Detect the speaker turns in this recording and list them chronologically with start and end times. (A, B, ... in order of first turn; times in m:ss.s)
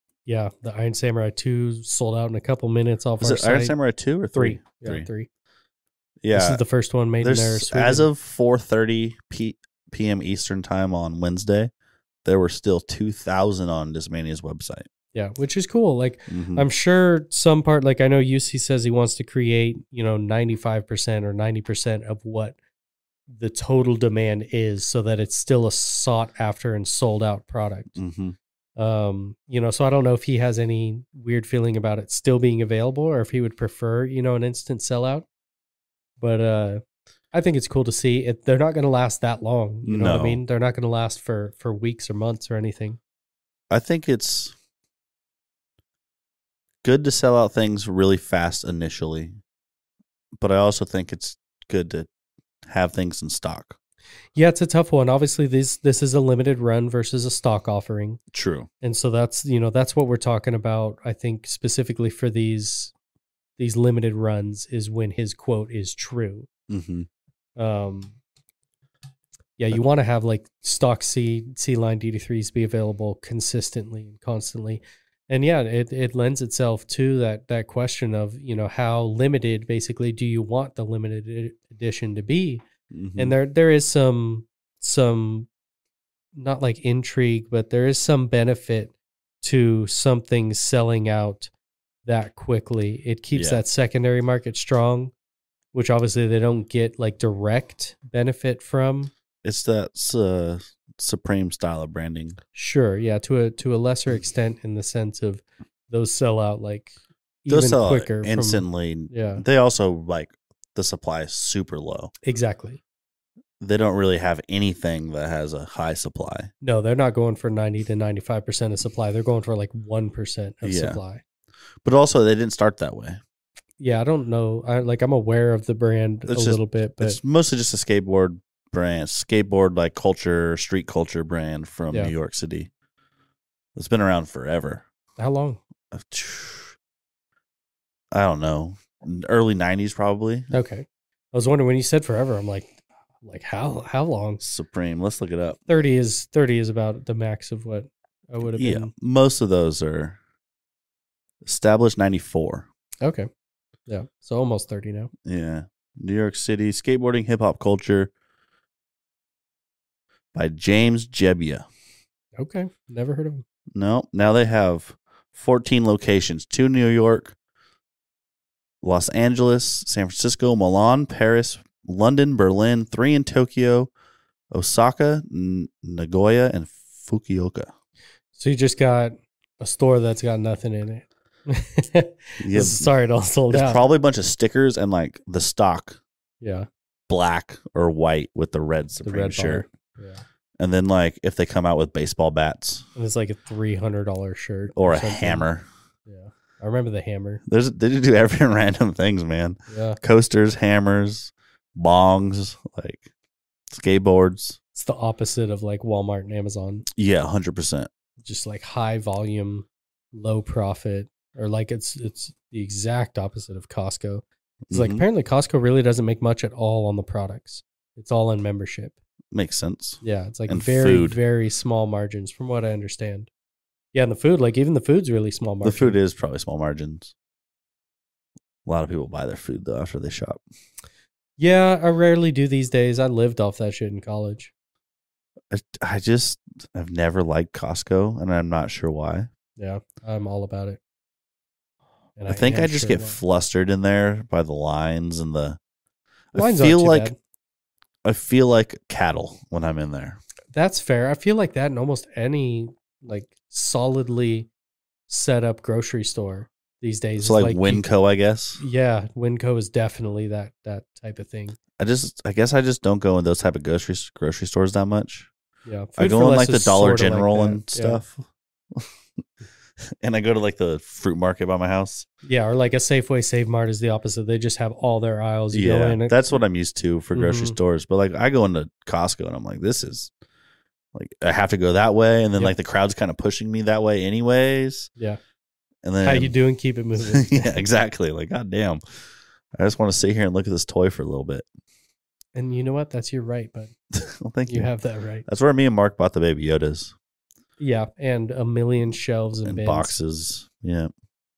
0:00.3-0:03.7 A
0:03.2-0:05.1 B
0:04.3-0:05.3 A
0:06.2-0:06.6 B
0:06.3-0:08.1 A
0:07.2-0:11.7 B
0:12.2-0:14.9 B
0:15.1-0:22.6 A
0:16.3-0:16.6 B
0:23.3-0:28.0 A
0:28.0-0:28.4 B
0:28.8-0:35.3 A
0:36.2-0:36.8 A
0:37.3-0:43.0 A
0:39.8-0:40.4 B
0:43.7-0:44.5 B
0:46.8-0:49.4 B
0:50.4-0:52.1 B
0:52.6-0:53.8 B
0:54.3-0:58.2 A
0:58.3-0:58.7 B
0:58.8-1:02.9 A
1:03.6-1:06.5 A
1:06.7-1:07.1 B
1:07.6-1:08.1 A
1:09.6-1:22.6 A
1:22.9-1:23.4 B
1:23.2-1:25.5 A
1:26.3-1:31.5 A
1:32.0-1:35.1 A
1:33.3-1:33.6 B
1:35.7-1:39.1 A
1:39.4-1:42.4 B
1:42.5-1:49.4 A
1:47.5-1:52.1 B
1:52.2-1:52.8 A
1:53.6-1:56.5 B
1:56.6-2:01.2 A
2:00.6-2:01.0 B
2:01.8-2:03.2 B
2:03.8-2:07.2 A
2:06.3-2:12.7 B
2:13.8-2:14.8 B
2:15.2-2:15.6 A
2:15.9-2:16.8 B
2:18.1-2:20.5 B
2:20.5-2:24.4 A
2:24.4-2:25.6 B
2:25.7-2:28.9 A
2:28.6-2:30.2 B
2:31.4-2:32.7 B
2:33.0-2:33.3 A
2:33.9-2:35.1 A
2:35.2-2:38.1 B
2:40.3-2:41.6 B
2:42.4-2:43.4 A
2:43.7-2:47.3 B
2:48.8-2:53.9 B
2:54.5-2:57.7 B
2:58.3-3:03.8 A
3:02.4-3:02.9 B
3:03.5-3:06.0 B
3:06.4-3:06.7 A
3:07.1-3:09.6 B
3:09.0-3:10.2 A
3:10.6-3:12.9 B
3:13.0-3:15.4 A
3:14.7-3:15.7 B
3:16.0-3:17.4 A
3:17.4-3:23.1 B
3:19.7-3:20.0 A
3:23.7-3:24.6 B
3:24.7-3:26.9 A
3:27.0-3:27.9 B
3:28.2-3:39.0 A
3:34.7-3:35.0 B
3:39.3-3:41.2 B
3:40.0-3:43.3 A
3:43.9-3:46.0 A
3:45.6-3:47.1 B
3:48.6-3:50.4 B
3:51.4-3:54.5 A
3:55.5-3:59.3 B
3:59.6-4:00.8 A
4:02.2-4:03.2 A
4:02.3-4:05.6 B
4:06.3-4:07.1 B
4:06.3-4:07.1 A
4:08.0-4:10.2 B
4:10.5-4:14.5 A
4:15.1-4:17.8 A
4:17.2-4:18.6 B
4:18.6-4:21.6 A
4:21.8-4:25.3 B
4:25.6-4:28.0 A
4:26.0-4:28.9 B
4:30.0-4:32.0 B
4:32.2-4:36.2 A
4:35.5-4:40.1 B
4:37.1-4:37.6 A
4:40.9-4:44.9 B
4:45.8-4:46.3 B
4:46.0-4:47.6 A
4:47.0-4:48.8 B
4:49.5-4:51.4 B
4:52.3-4:53.7 A
4:53.9-4:54.7 B
4:54.5-4:55.3 A
4:55.3-4:56.9 B
4:57.6-4:59.9 A
4:59.4-5:00.9 B